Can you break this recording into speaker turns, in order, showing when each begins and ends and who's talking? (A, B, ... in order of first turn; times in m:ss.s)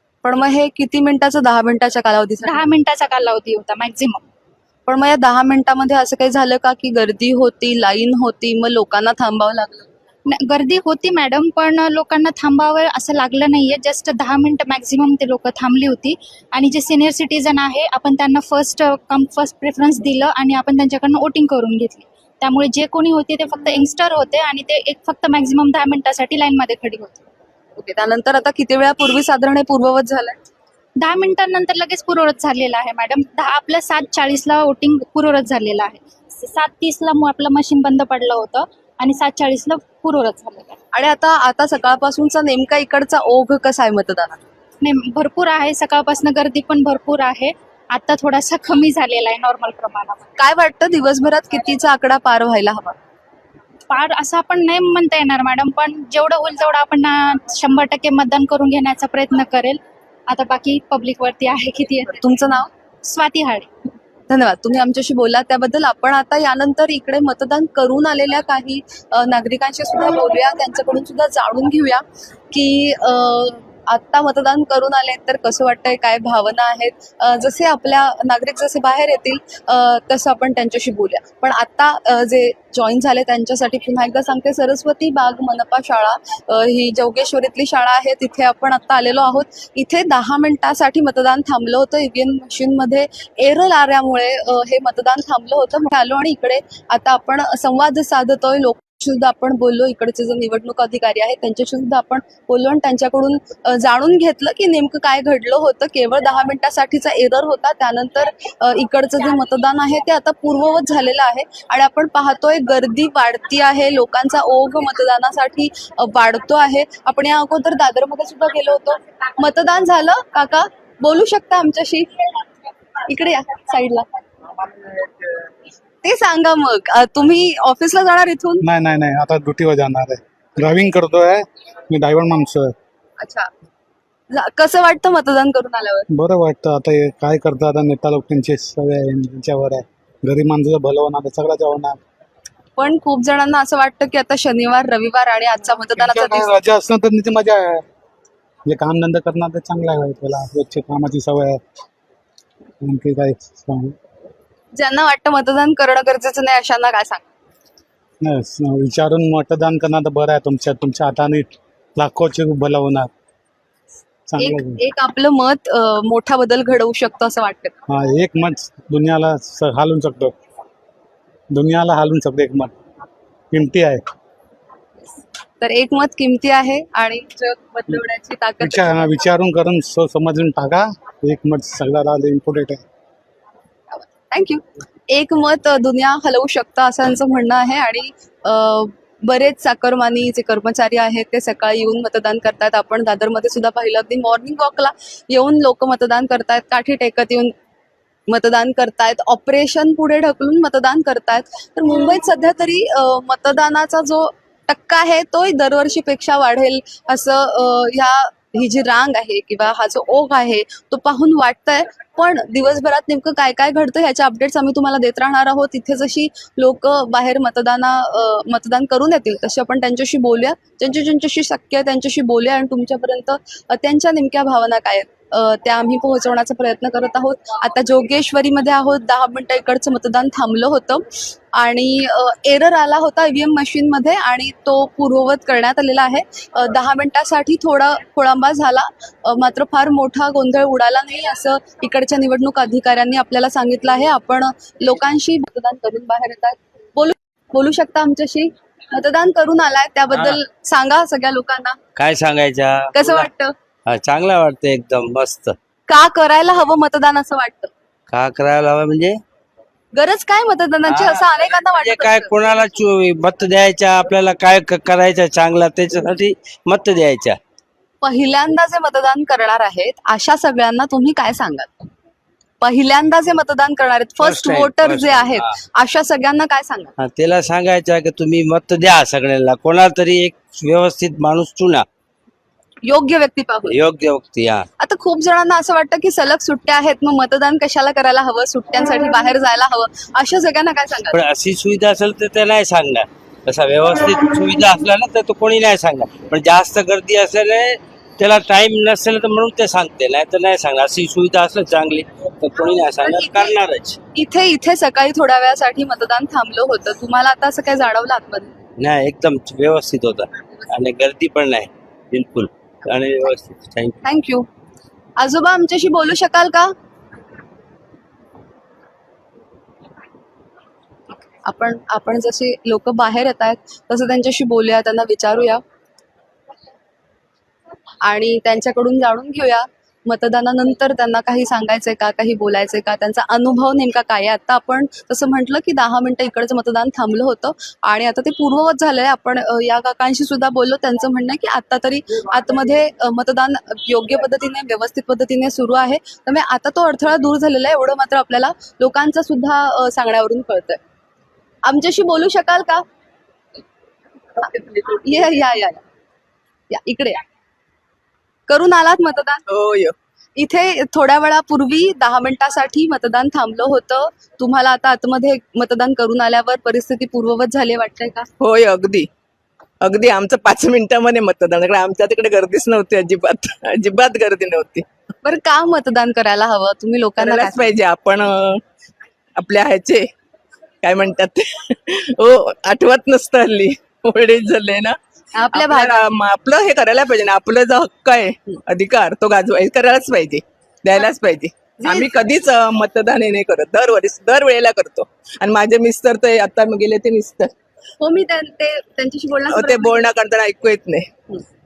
0:00.2-0:02.7 A
0:02.4-0:04.2 B
0:04.9-0:09.9 A
0:10.3-0:27.2 B
0:27.8-0:30.4 A
0:31.0-0:40.8 B
0:40.9-0:44.4 A
0:44.8-0:50.3 B
0:50.4-0:53.0 A
0:53.9-1:02.2 B
1:02.2-1:02.7 A
1:03.0-1:03.7 B
1:04.3-2:02.4 A
2:03.1-2:04.1 A
2:06.0-2:08.6 A
2:08.6-2:12.7 C
2:13.2-2:13.5 A
2:14.3-2:16.1 A
2:16.1-2:22.0 C
2:22.8-2:26.5 A
2:26.0-2:27.8 C
2:28.7-2:31.6 C
2:32.8-2:34.0 C
2:34.8-2:37.3 A
2:38.2-2:43.1 C
2:44.3-2:44.8 C
2:44.4-2:47.8 A
2:47.9-2:50.4 C
2:51.5-2:52.7 C
2:53.5-2:54.0 C
2:55.6-2:59.0 A
2:58.6-3:02.8 C
3:04.0-3:17.5 A
3:18.3-4:11.8 A
4:10.1-4:10.4 D
4:12.0-4:13.3 D
4:12.9-4:13.5 A
4:13.9-4:15.6 D
4:15.9-4:17.7 A
4:18.1-4:19.2 D
4:20.0-4:22.3 A
4:20.8-4:27.4 D
4:28.0-4:31.8 A
4:32.6-4:36.9 A
4:34.2-4:35.5 D
4:37.0-4:41.9 D
4:42.8-4:43.8 A
4:43.7-4:44.7 D
4:44.8-4:51.2 A
4:51.1-5:04.0 D
5:03.0-5:03.6 A
5:04.2-5:08.5 A
5:08.8-5:14.0 D
5:14.0-5:14.5 A
5:15.2-5:16.7 A
5:21.4-5:25.6 A
5:28.0-5:50.8 A
5:51.7-5:52.8 A
5:54.9-5:55.8 A
5:56.7-5:57.2 A
5:58.5-5:59.4 A
5:59.5-6:00.0 E
6:00.4-6:08.3 A
6:08.4-6:09.1 E
6:09.8-6:14.8 E
6:15.2-6:17.7 A
6:17.2-6:18.6 E
6:19.4-6:20.1 E
6:20.8-6:25.0 E
6:25.4-6:26.1 A
6:25.5-6:37.5 E
6:31.8-6:32.1 A
6:38.0-6:40.1 A
6:39.5-6:41.1 E